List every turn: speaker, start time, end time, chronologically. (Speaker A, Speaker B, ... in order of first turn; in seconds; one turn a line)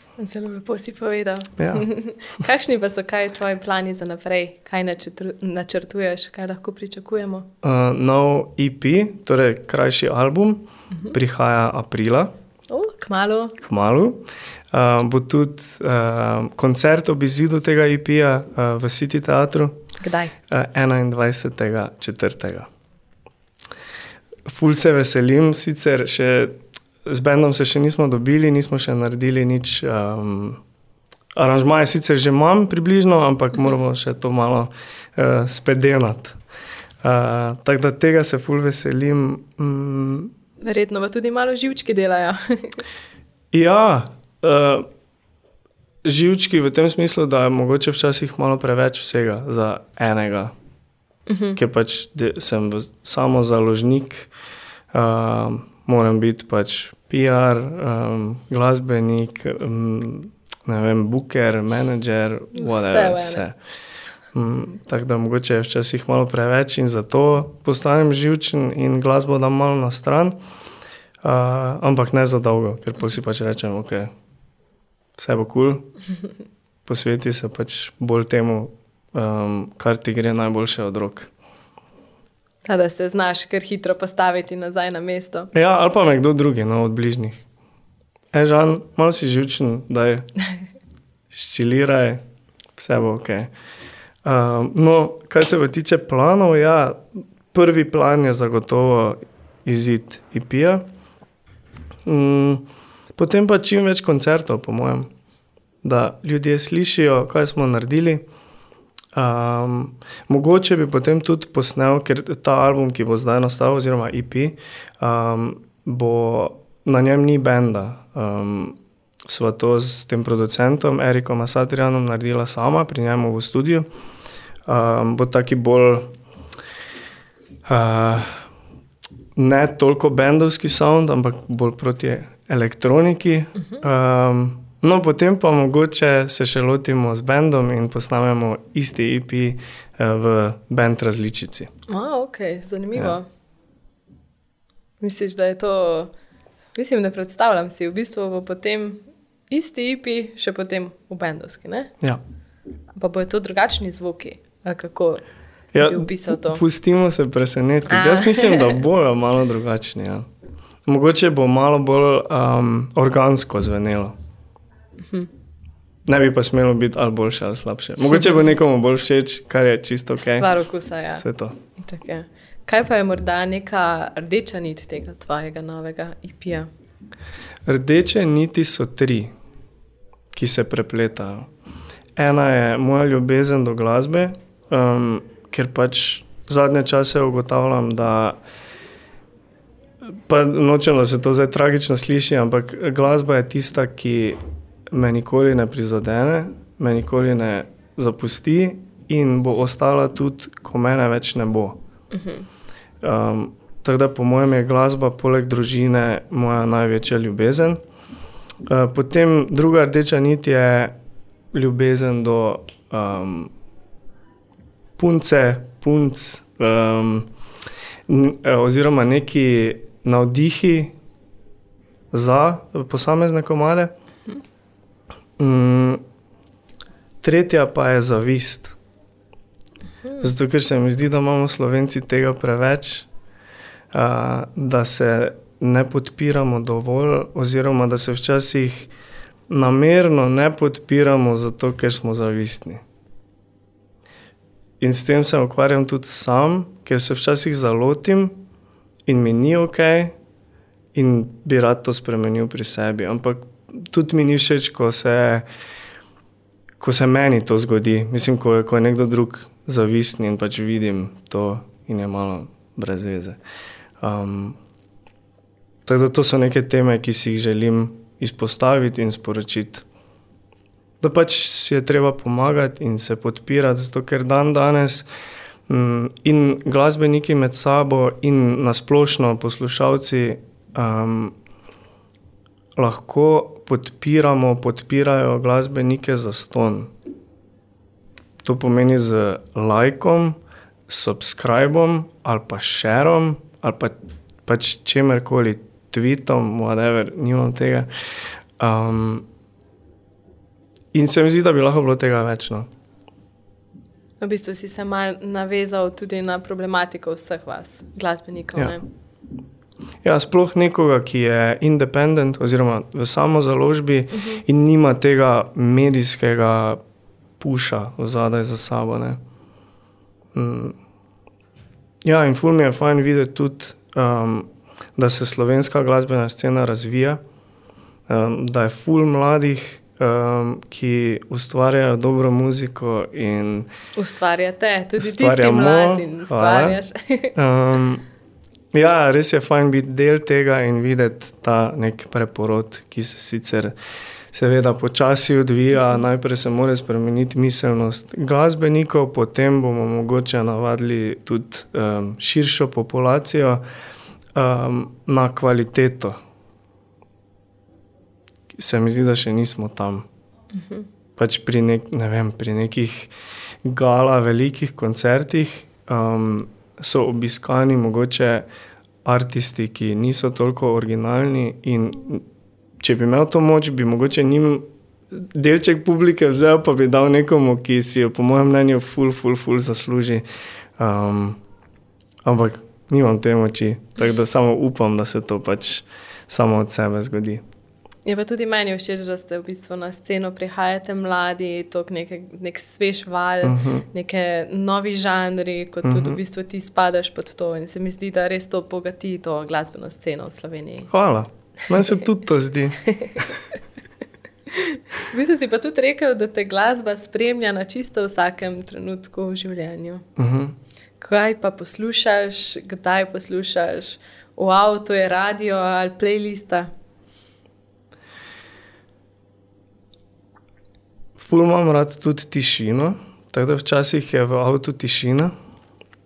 Speaker A: 0.2-7.5
Speaker B: 1.6-1.9
Speaker B: 7.6-12.3
Speaker A: 12.7-13.6
Speaker B: 13.6-19.8
Speaker A: 20.0-20.3
Speaker B: 20.5-22.7
Speaker B: 24.5-26.5
Speaker B: 27.1-30.6
Speaker B: 31.4-36.4
Speaker B: 37.0-40.3
Speaker A: 40.6-42.8
Speaker B: 43.5-44.9
Speaker B: 46.0-50.5
Speaker A: 51.3-51.6
Speaker B: 51.6-54.3
Speaker B: 54.9-63.6
Speaker A: 62.5-63.4
Speaker B: 64.3-70.4
Speaker B: 71.2-74.1
Speaker B: 75.2-75.9
Speaker B: 76.8-81.3
Speaker A: 82.7-85.5
Speaker B: 85.5-87.4
Speaker B: 88.3-90.3
Speaker B: 91.3-92.2
Speaker B: 92.8-93.5
Speaker B: 94.2-97.0
Speaker B: 97.5-100.8
Speaker B: 102.1-105.1
Speaker B: 105.8-108.2
Speaker B: 109.2-123.9
Speaker B: 124.7-126.1
Speaker B: 127.7-128.5
Speaker B: 129.4-141.7
Speaker A: 141.9-143.3
Speaker A: 145.0-146.1
Speaker A: 146.8-151.9
Speaker A: 152.9-155.2
Speaker B: 155.7-160.3
Speaker A: 155.8-156.6
Speaker A: 157.9-158.8
Speaker B: 160.9-164.1
Speaker B: 166.1-170.5
Speaker A: 168.1-168.5
Speaker A: 170.2-171.2
Speaker B: 171.2-171.6
Speaker A: 171.8-176.7
Speaker B: 177.7-179.3
Speaker B: 180.3-181.5
Speaker B: 182.2-188.4
Speaker B: 190.1-194.4
Speaker B: 194.9-201.8
Speaker A: 202.1-202.5
Speaker B: 203.0-207.8
Speaker B: 208.7-210.9
Speaker B: 211.5-213.5
Speaker B: 215.0-217.3
Speaker B: 218.1-220.9
Speaker B: 222.1-223.9
Speaker B: 225.4-226.0
Speaker B: 227.2-228.8
Speaker B: 230.2-233.1
Speaker B: 233.9-238.9
Speaker B: 239.5-242.8
Speaker B: 244.8-248.4
Speaker B: 249.1-250.1
Speaker B: 250.9-255.5
Speaker B: 256.8-263.4
Speaker B: 264.0-264.6
Speaker B: 265.9-269.9
Speaker B: 271.0-275.1
Speaker B: 275.7-281.4
Speaker B: 282.8-286.9
Speaker B: 288.4-297.9
Speaker B: 298.6-299.3
Speaker B: 300.9-302.7
Speaker A: 304.2-308.8
Speaker B: 310.0-316.8
Speaker A: 314.2-314.4
Speaker B: 317.4-319.2
Speaker B: 320.3-320.8
Speaker B: 322.1-327.2
Speaker B: 328.1-333.7
Speaker A: 334.0-337.3
Speaker B: 335.0-336.8
Speaker B: 337.4-338.1
Speaker B: 338.7-343.7
Speaker B: 344.3-353.6
Speaker B: 354.4-356.2
Speaker B: 358.6-360.1
Speaker A: 360.5-360.9
Speaker B: 361.2-363.1
Speaker B: 363.6-368.5
Speaker B: 369.1-372.2
Speaker B: 372.8-380.2
Speaker B: 380.8-381.4
Speaker B: 382.2-387.4
Speaker A: 388.1-400.9
Speaker B: 393.4-393.9
Speaker B: 395.8-396.2
Speaker B: 400.9-403.3
Speaker A: 402.8-403.3
Speaker A: 404.5-410.1
Speaker B: 410.2-410.6
Speaker A: 411.0-416.7
Speaker B: 421.2-425.3